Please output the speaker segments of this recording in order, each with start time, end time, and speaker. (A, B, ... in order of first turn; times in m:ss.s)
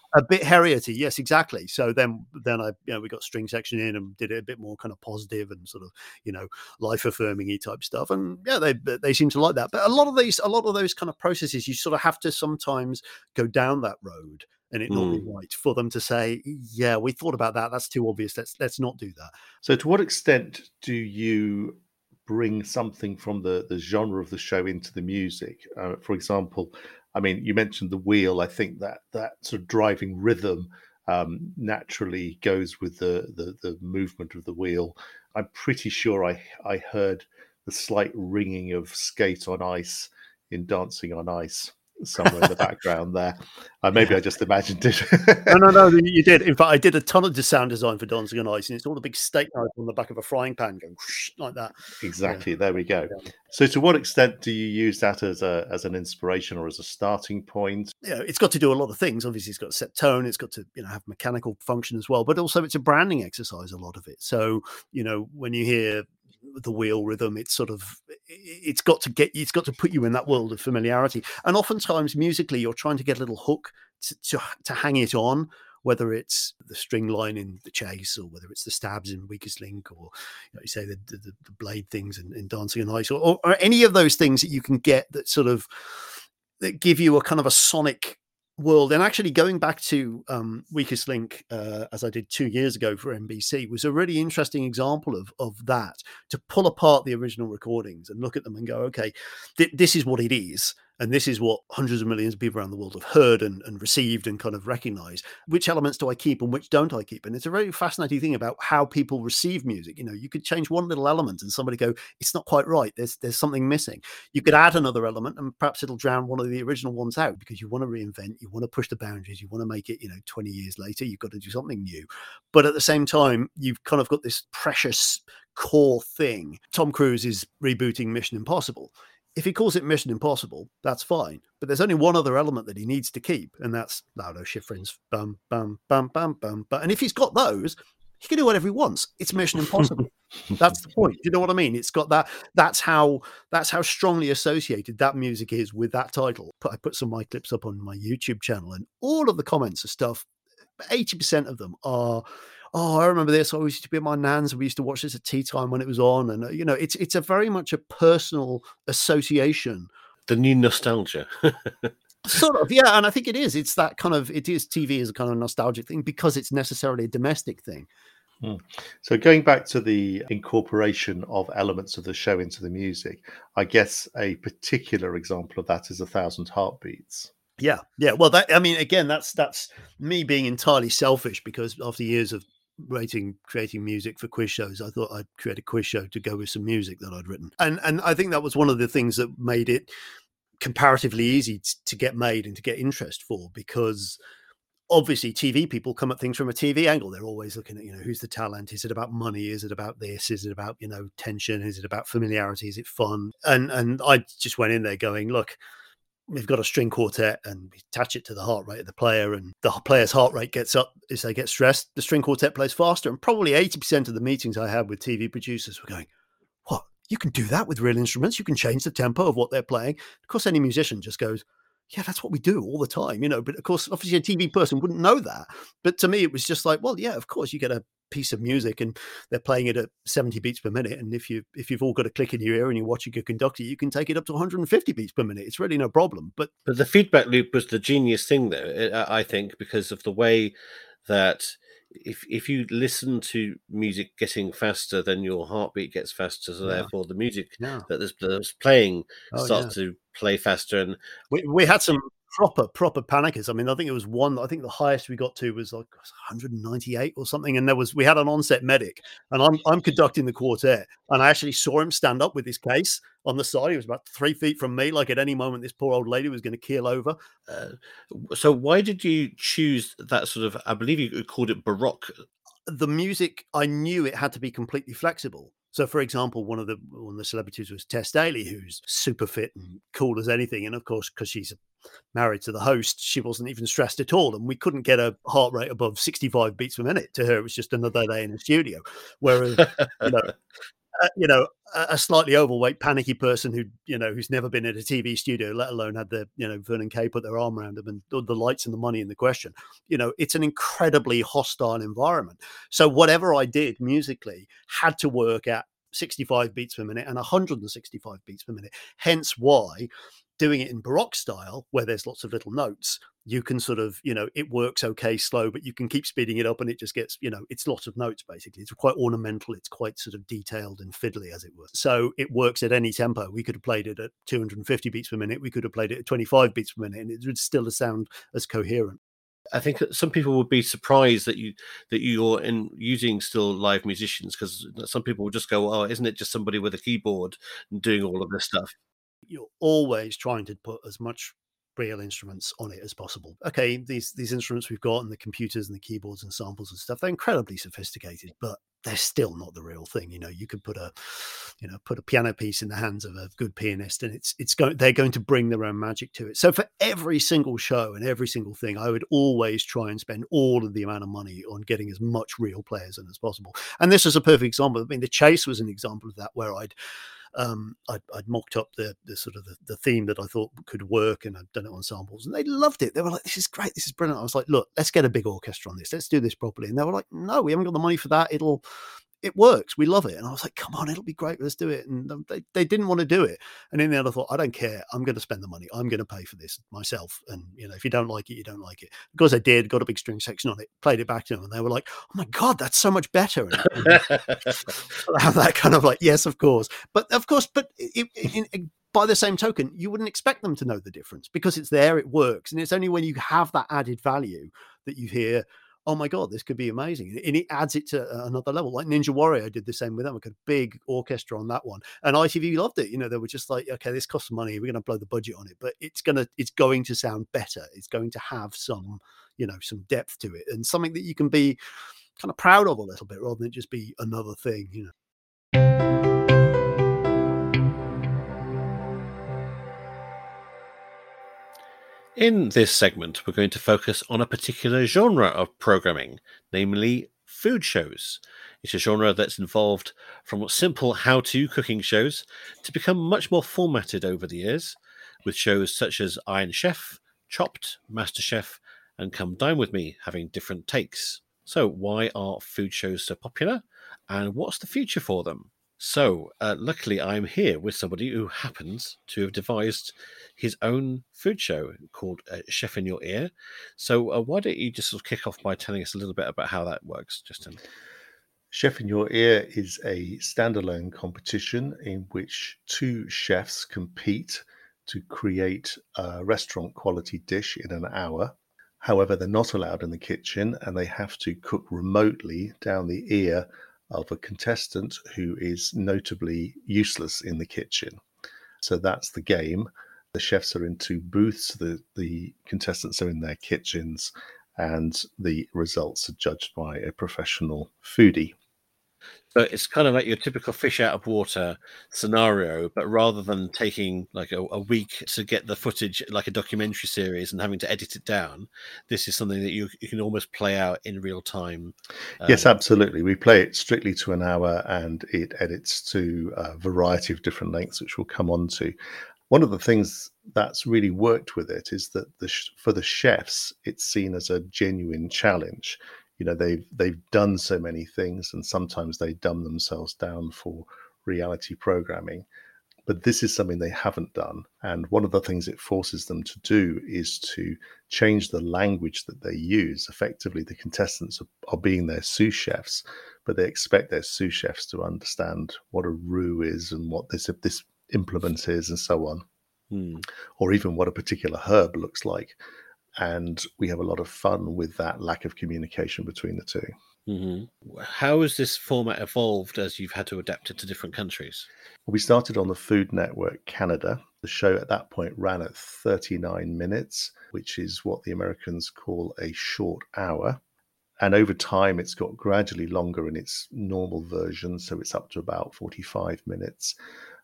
0:00.1-0:19.3 A
0:14.9-0:15.3 B
0:19.6-0:45.7 C
0:45.5-0:52.4 A
0:52.0-0:57.9 C
0:58.0-2:30.2 A
2:30.9-2:39.9 A
2:40.3-2:41.9 B
2:42.2-2:47.9 A
2:48.4-2:57.3 C
2:57.6-3:09.9 A
3:10.6-3:14.2 A
3:14.9-3:25.6 A
3:26.3-3:36.1 A
3:36.7-3:56.5 A
3:56.6-4:00.5 B
4:01.1-4:11.0 B
4:06.6-4:06.9 A
4:07.6-4:07.9 A
4:09.3-4:09.7 A
4:11.3-4:27.2 A
4:27.5-4:32.2 B
4:32.7-4:41.6 A
4:42.1-4:50.3 A
4:51.0-5:29.0 A
5:29.5-5:38.8 B
5:39.3-6:06.7 A
6:07.4-6:18.6 A
6:19.2-7:01.6 A
7:02.2-7:04.9 A
7:12.2-7:47.6 B
7:48.5-8:08.0 C
8:08.6-8:18.4 C
8:19.4-8:32.5 B
8:32.2-8:38.8 C
8:39.3-8:52.3 C
8:52.9-9:09.3 C
9:09.7-9:10.1 B
9:10.4-9:12.4 C
9:13.0-9:16.7 C
9:17.1-9:21.5 B
9:21.9-9:30.4 C
9:31.0-9:36.8 C